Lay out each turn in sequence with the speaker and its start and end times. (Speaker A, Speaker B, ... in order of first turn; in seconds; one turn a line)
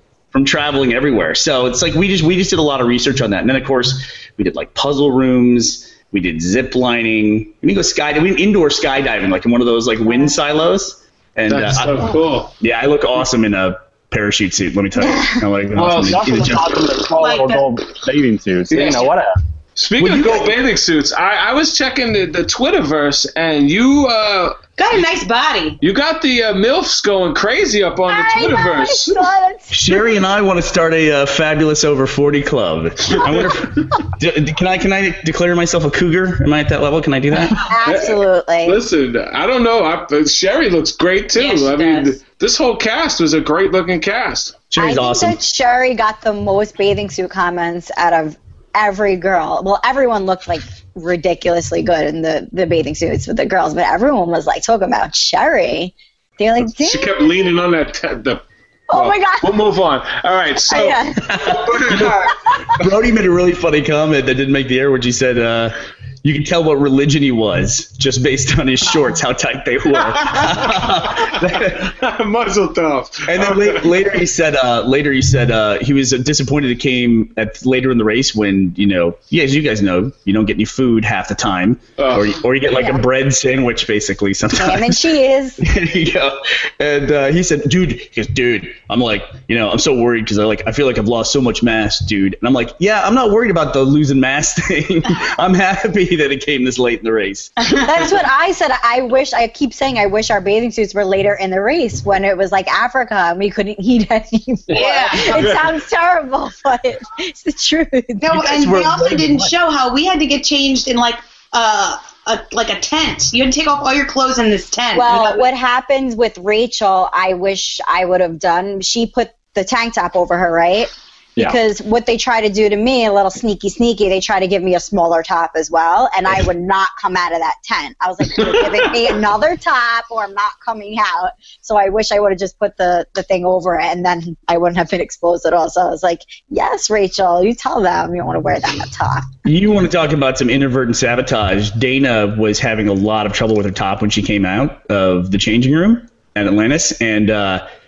Speaker A: 0.3-16.8
Speaker B: 11.5-12.5
Speaker C: 15.0-15.4
Speaker B: 15.7-16.3
Speaker D: 15.9-19.3
Speaker E: 17.2-17.6
Speaker B: 18.7-19.1
Speaker B: 19.8-24.6
Speaker A: 20.0-20.6
Speaker E: 24.8-25.8
Speaker B: 25.8-29.2
Speaker C: 28.1-30.1
Speaker A: 29.7-37.7
Speaker B: 33.1-33.6
Speaker C: 37.6-38.8
Speaker B: 37.8-44.6
Speaker E: 41.3-42.2
Speaker A: 44.7-45.4
Speaker C: 44.8-57.4
Speaker B: 56.7-62.8
Speaker C: 58.9-59.6
Speaker C: 60.7-61.5
Speaker A: 61.2-62.1
Speaker A: 62.8-71.9
Speaker B: 70.0-74.2
Speaker A: 73.3-97.5
Speaker B: 82.0-82.4
Speaker C: 82.7-83.0
Speaker C: 84.5-85.6
Speaker E: 97.6-97.8
Speaker C: 97.8-108.4
Speaker E: 104.7-105.5
Speaker B: 104.7-105.7
Speaker E: 108.2-115.5
Speaker A: 108.3-109.5
Speaker C: 114.9-139.3
Speaker B: 128.4-128.9
Speaker A: 139.4-147.6